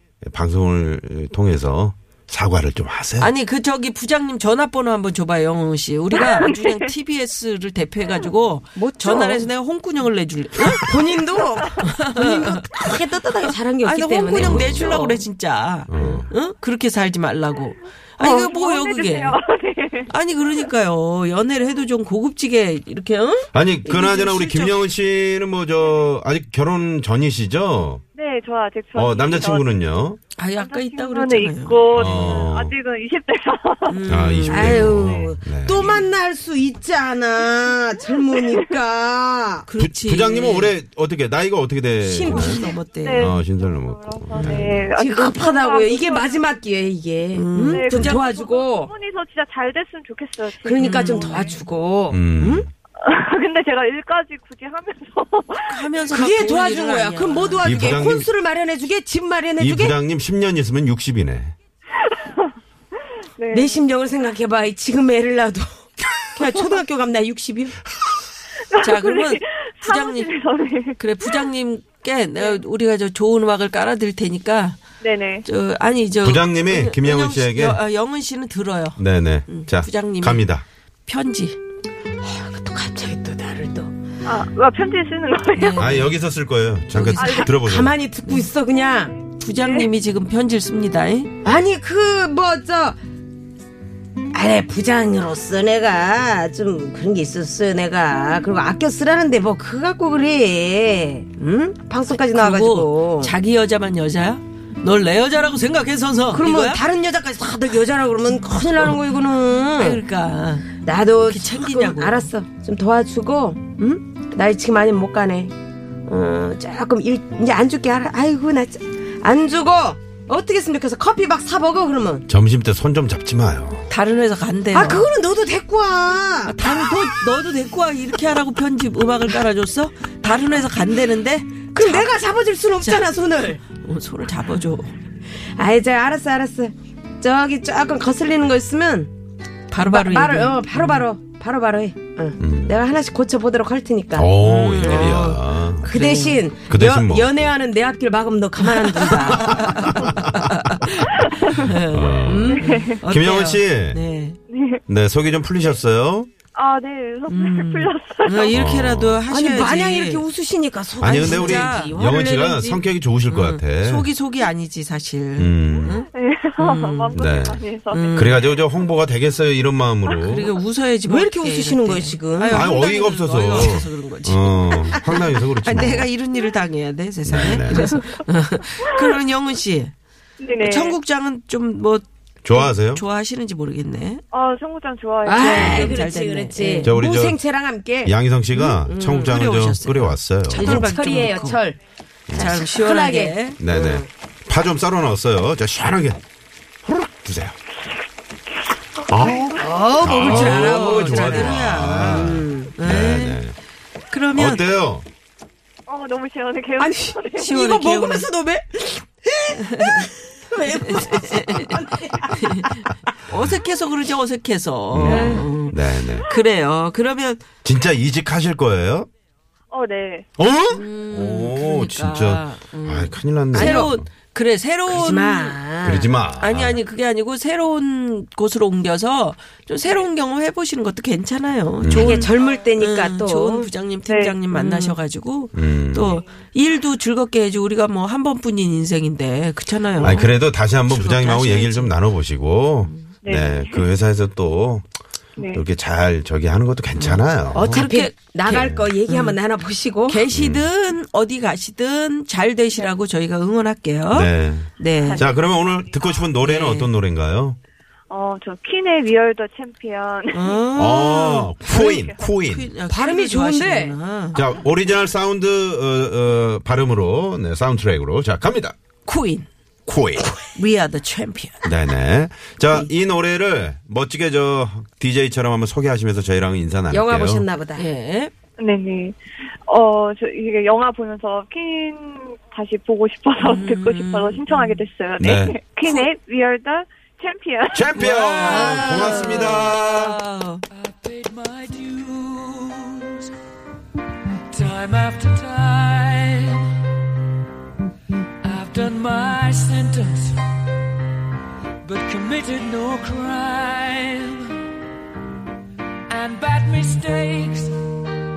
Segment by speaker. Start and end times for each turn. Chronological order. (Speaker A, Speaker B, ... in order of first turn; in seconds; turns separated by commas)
Speaker A: 0.2-3.3, Speaker B: 3.2-11.2, Speaker C: 6.1-6.5, Speaker D: 8.8-9.5, Speaker D: 10.6-15.2, Speaker B: 11.8-12.8, Speaker B: 13.8-19.4, Speaker A: 14.3-14.9, Speaker A: 15.9-16.3, Speaker D: 16.0-16.2, Speaker C: 18.2-20.1, Speaker B: 20.1-24.8, Speaker A: 23.5-28.0, Speaker C: 28.1-29.7, Speaker A: 28.9-30.2, Speaker B: 30.4-32.4, Speaker C: 30.6-34.0, Speaker A: 31.9-32.7, Speaker B: 33.9-34.9, Speaker A: 34.0-36.0, Speaker D: 34.5-39.6, Speaker C: 34.9-36.0, Speaker C: 38.1-38.6, Speaker B: 39.7-40.7, Speaker A: 39.8-42.6, Speaker D: 42.0-42.8, Speaker B: 42.2-43.3, Speaker C: 42.4-46.5, Speaker A: 43.2-44.8, Speaker D: 44.9-48.9, Speaker B: 47.3-48.1, Speaker C: 47.7-51.6, Speaker D: 50.6-52.6, Speaker B: 50.8-51.6, Speaker A: 52.1-52.7, Speaker C: 53.0-56.1, Speaker B: 55.5-57.9, Speaker D: 56.1-60.0, Speaker A: 57.6-58.3, Speaker A: 59.6-61.5, Speaker C: 62.0-62.5, Speaker C: 63.4-63.8, Speaker D: 63.5-68.0, Speaker C: 68.7-71.4, Speaker B: 68.8-70.3, Speaker B: 71.0-74.8, Speaker C: 72.3-72.6, Speaker C: 75.0-75.5, Speaker B: 75.4-80.5, Speaker A: 76.2-77.8, Speaker A: 79.0-80.6, Speaker B: 81.0-81.6, Speaker D: 82.2-83.9, Speaker C: 84.2-85.9, Speaker B: 85.5-86.1, Speaker A: 85.8-87.9, Speaker B: 86.9-87.4, Speaker D: 87.1-89.2, Speaker C: 87.2-87.5, Speaker B: 89.4-91.3, Speaker C: 89.5-89.9, Speaker D: 91.4-93.0, Speaker D: 94.3-103.3, Speaker B: 102.3-106.8, Speaker D: 106.3-110.0, Speaker B: 109.8-112.3, Speaker D: 110.8-115.5, Speaker D: 116.0-122.2, Speaker A: 122.3-123.9, Speaker B: 123.9-125.1, Speaker D: 124.7-127.1, Speaker B: 126.5-132.1, Speaker D: 131.7-133.6, Speaker B: 132.8-133.1, Speaker B: 133.7-134.9, Speaker D: 135.3-139.1, Speaker B: 139.7-141.1, Speaker D: 139.8-144.3, Speaker A: 142.4-142.8, Speaker A: 144.1-145.9, Speaker B: 144.4-146.4, Speaker D: 144.9-145.2, Speaker D: 145.8-149.7, Speaker A: 146.7-147.4, Speaker B: 148.6-150.9, Speaker A: 149.3-150.4, Speaker C: 151.2-151.6, Speaker B: 151.6-154.4, Speaker A: 151.7-154.0, Speaker D: 152.2-152.8, Speaker C: 152.5-153.0, Speaker C: 154.5-154.8, Speaker A: 154.9-156.3, Speaker C: 156.5-158.6, Speaker B: 157.3-160.3, Speaker A: 158.5-159.2, Speaker D: 159.3-162.8, Speaker A: 161.0-164.1, Speaker B: 161.0-162.4, Speaker B: 163.3-167.2, Speaker A: 165.3-165.9, Speaker C: 165.9-168.6, Speaker A: 167.1-167.6, Speaker B: 167.9-168.4, Speaker A: 168.1-170.6, Speaker B: 170.2-179.9, Speaker D: 171.0-172.7, Speaker A: 172.5-176.1, Speaker A: 177.2-177.9, Speaker C: 180.4-181.0, Speaker B: 180.6-184.2, Speaker A: 182.4-183.0, Speaker C: 184.3-186.0, Speaker D: 185.2-188.1, Speaker B: 185.3-186.9, Speaker A: 185.5-186.0, Speaker A: 186.8-187.4, Speaker A: 188.0-191.0, Speaker B: 188.5-191.6, Speaker D: 188.8-189.3, Speaker D: 190.5-191.8, Speaker A: 192.3-192.6, Speaker B: 192.3-193.6, Speaker D: 192.3-194.1, Speaker A: 193.6-196.2, Speaker A: 196.8-197.6, Speaker A: 199.1-203.6, Speaker D: 199.5-202.7, Speaker B: 200.0-203.4, Speaker B: 204.1-204.6, Speaker A: 204.3-205.1, Speaker C: 205.9-207.5, Speaker D: 206.8-212.9, Speaker B: 207.4-208.3, Speaker B: 209.8-210.1, Speaker B: 210.7-217.4, Speaker A: 214.9-216.3, Speaker D: 215.0-215.5, Speaker A: 217.6-219.1, Speaker C: 219.7-220.3, Speaker A: 220.4-224.1, Speaker B: 220.7-225.6, Speaker D: 223.5-223.9, Speaker D: 224.8-226.1, Speaker A: 225.8-226.8, Speaker B: 226.4-241.9, Speaker A: 231.8-232.3, Speaker D: 231.9-233.7, Speaker C: 234.1-234.4, Speaker D: 234.5-235.0, Speaker A: 235.5-236.2, Speaker A: 240.0-244.9, Speaker C: 243.2-243.9, Speaker C: 245.4-245.6, Speaker A: 245.4-247.8, Speaker B: 246.9-249.4, Speaker D: 247.5-250.2, Speaker A: 248.5-248.9, Speaker B: 250.1-255.3, Speaker A: 250.3-250.7, Speaker A: 254.1-257.6, Speaker C: 255.0-256.3, Speaker B: 256.4-256.9, Speaker C: 258.1-260.6, Speaker B: 260.3-261.5, Speaker A: 260.7-262.7, Speaker C: 261.6-262.3, Speaker B: 262.4-264.4, Speaker D: 262.9-264.0, Speaker A: 264.3-268.8, Speaker B: 269.0-269.5, Speaker A: 269.9-270.3, Speaker B: 270.5-271.7, Speaker A: 271.6-277.4, Speaker D: 276.9-277.9, Speaker B: 277.8-278.3, Speaker C: 278.6-289.6, Speaker B: 283.4-284.8, Speaker A: 285.2-285.6, Speaker A: 287.7-290.2, Speaker B: 288.0-290.6, Speaker E: 290.8-293.2, Speaker E: 294.5-296.7, Speaker E: 298.4-300.4, Speaker E: 301.8-304.5, Speaker E: 306.1-307.8